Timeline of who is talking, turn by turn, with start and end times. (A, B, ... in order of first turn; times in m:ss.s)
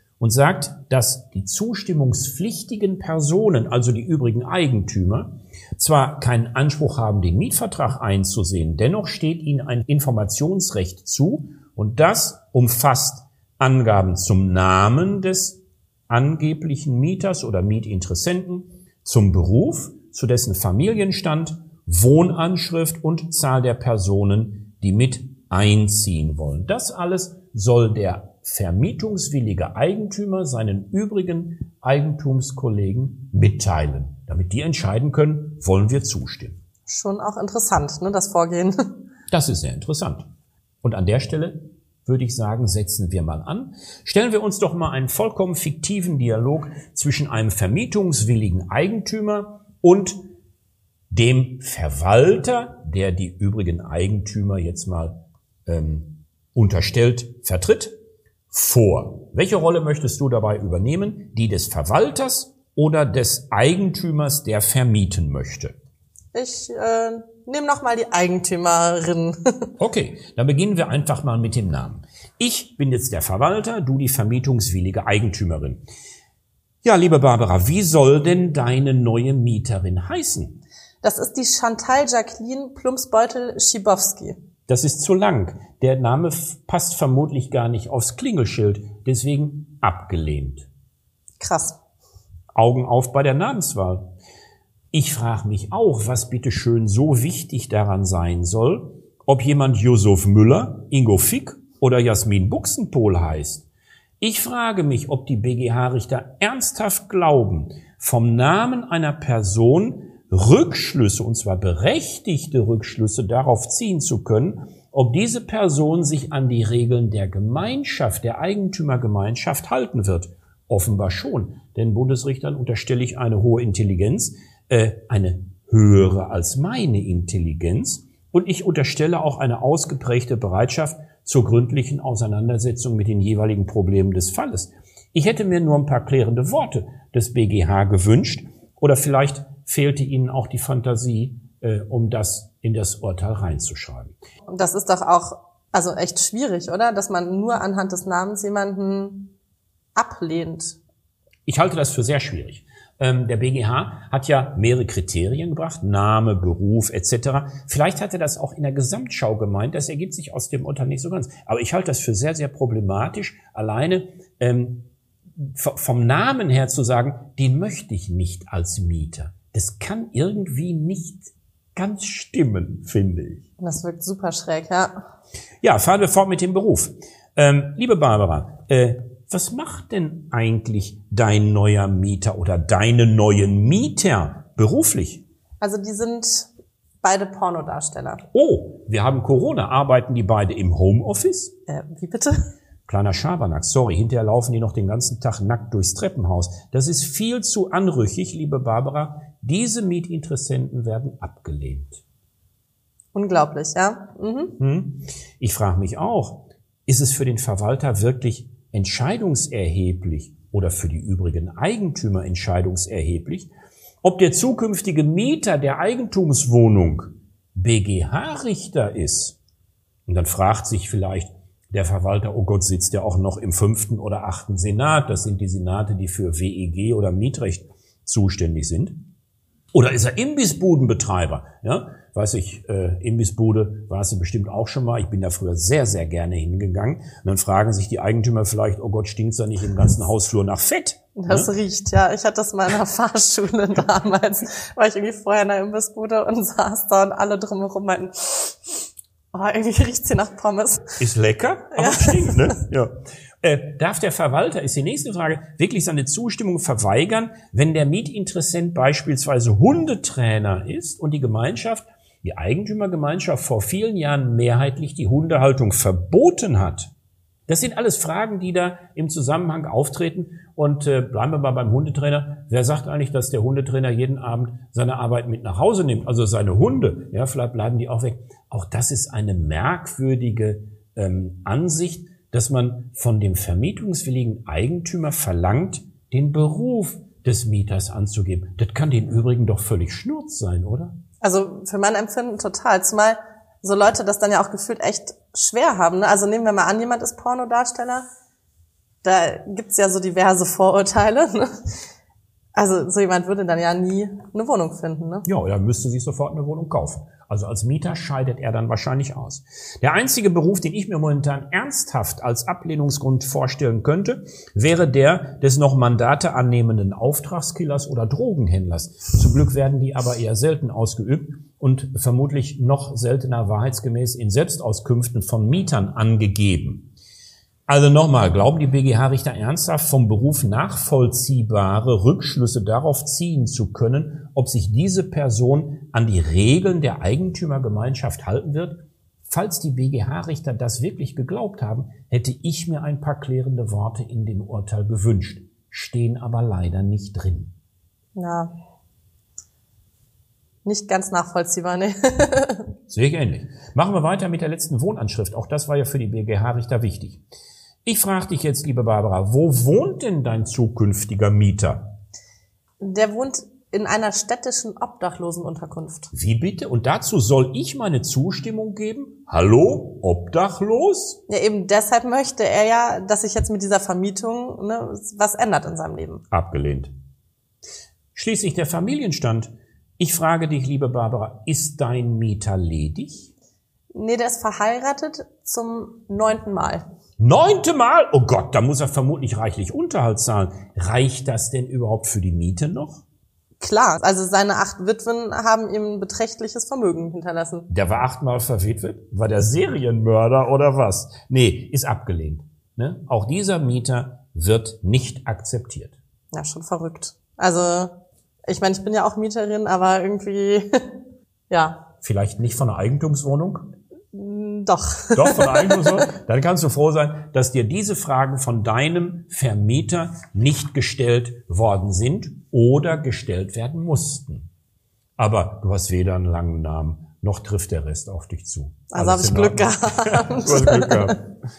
0:00.2-0:36.6 A
0:36.9-0:38.8 B
0:39.3-0:40.2 A
0:40.8-0:50.2 A
0:51.1-0:55.2 A
0:55.7-0:58.0 A
0:58.5-1:05.7 A
1:06.3-1:09.7 B
1:09.8-1:15.8 A
1:16.8-1:20.6 A
1:21.0-1:24.4 B
1:24.7-1:30.7 A
1:31.4-1:31.8 B
1:32.6-1:34.1 A
1:34.9-1:43.7 A
1:44.2-2:24.2 A
2:24.5-2:29.3 B
2:30.0-2:30.8 B
2:31.5-2:44.9 A
2:45.4-2:53.4 A
2:53.6-2:54.9 B
2:55.6-3:05.2 A
3:05.6-3:06.5 B
3:07.0-3:08.2 B
3:08.3-3:11.5 A
3:11.7-3:12.4 B
3:12.9-3:22.0 A
3:23.1-3:24.6 B
3:24.6-3:33.5 A
3:34.0-3:39.4 A
3:40.1-3:49.0 A
3:49.7-4:01.5 A
4:01.2-4:08.8 B
4:09.3-4:11.0 B
4:11.0-4:12.9 A
4:11.8-4:12.6 B
4:13.4-4:26.9 A
4:27.5-4:51.0 A
4:51.2-4:58.0 B
4:59.0-5:01.5 B
5:02.6-5:05.3 B
5:05.3-5:26.9 A
5:27.7-5:47.5 A
5:48.2-5:48.5 B
5:50.6-5:52.7 B
5:52.9-5:57.2 A
5:57.8-6:01.9 A
6:02.8-6:06.1 B
6:06.1-6:11.2 A
6:11.3-6:16.2 B
6:16.3-6:16.9 A
6:18.2-6:23.3 A
6:23.9-6:26.8 B
6:27.2-6:33.0 A
6:33.6-6:37.7 B
6:37.7-6:46.0 A
6:46.3-6:50.7 B
6:51.5-6:51.8 B
6:52.0-6:53.7 A
6:54.1-6:56.1 B
6:55.2-7:04.5 A
7:05.2-7:11.2 A
7:08.9-7:11.2 B